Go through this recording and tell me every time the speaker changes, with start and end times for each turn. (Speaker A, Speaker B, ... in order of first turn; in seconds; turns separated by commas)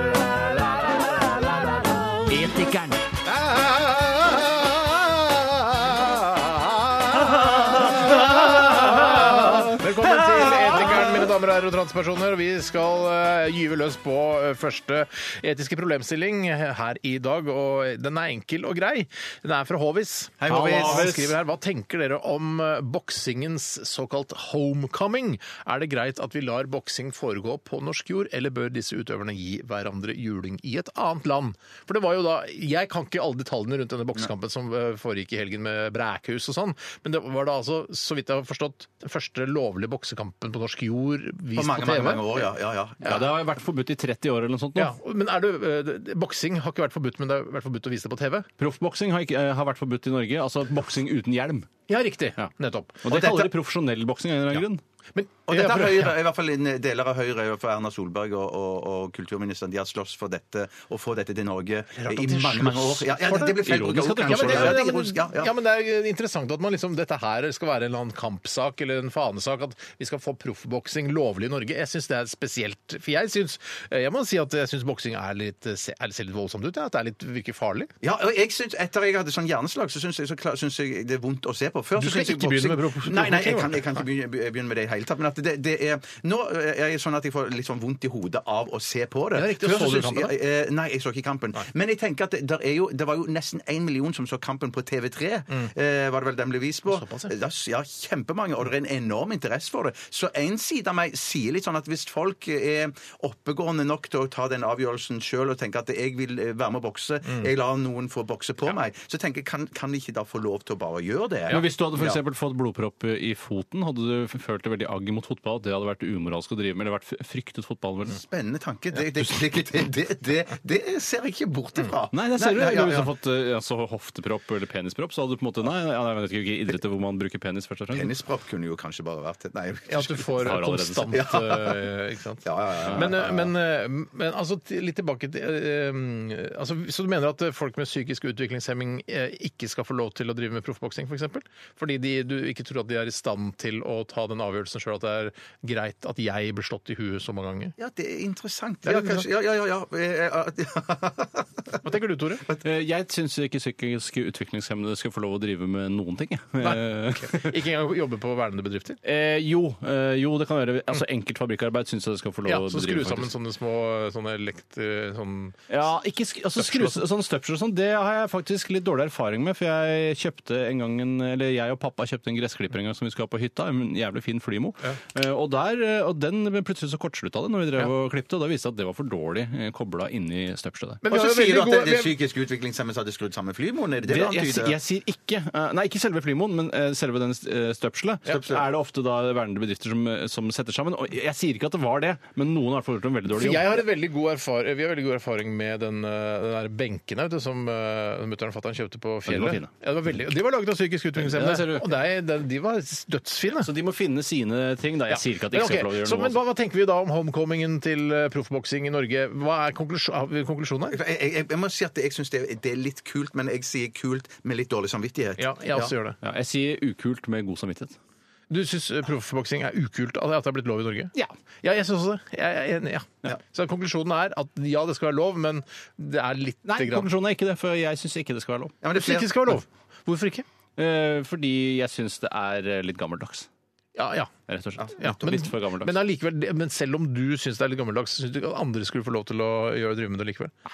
Speaker A: 2.3-3.1, Speaker B: 3.3-42.5, Speaker A: 7.1-9.7, Speaker C: 20.4-21.1, Speaker A: 20.5-21.3, Speaker C: 41.5-43.3, Speaker A: 43.0-44.9, Speaker B: 44.8-48.5, Speaker A: 48.6-51.7, Speaker B: 51.9-53.0, Speaker A: 53.0-54.8, Speaker C: 53.1-53.5, Speaker B: 55.1-56.1, Speaker C: 55.5-65.5, Speaker B: 61.9-77.9, Speaker A: 63.6-65.0, Speaker C: 78.0-112.2, Speaker B: 82.0-84.0, Speaker B: 89.3-90.3, Speaker B: 96.9-97.3, Speaker A: 111.5-118.2, Speaker C: 118.1-123.1, Speaker A: 122.1-128.1, Speaker C: 127.9-130.5, Speaker B: 129.9-147.7, Speaker A: 130.4-131.1, Speaker C: 131.1-131.9, Speaker C: 132.4-133.5, Speaker C: 147.8-151.8, Speaker B: 148.8-149.3, Speaker B: 151.8-152.4, Speaker A: 152.6-157.5, Speaker B: 156.6-159.0, Speaker A: 159.0-163.3, Speaker B: 162.4-165.7, Speaker A: 165.7-181.0, Speaker B: 166.5-167.0, Speaker B: 181.0-182.1, Speaker C: 181.1-184.8, Speaker A: 184.1-193.6, Speaker C: 188.3-188.7, Speaker B: 193.3-203.7, Speaker A: 199.3-199.7, Speaker A: 201.2-201.9, Speaker A: 203.6-206.4, Speaker B: 205.1-211.0, Speaker C: 210.9-215.9, Speaker B: 215.4-216.2, Speaker A: 216.2-218.0, Speaker B: 218.5-227.1, Speaker A: 226.6-228.8, Speaker C: 228.8-229.6, Speaker B: 228.9-230.4, Speaker A: 230.8-233.5, Speaker B: 233.9-234.3, Speaker A: 234.5-235.9, Speaker B: 235.0-240.5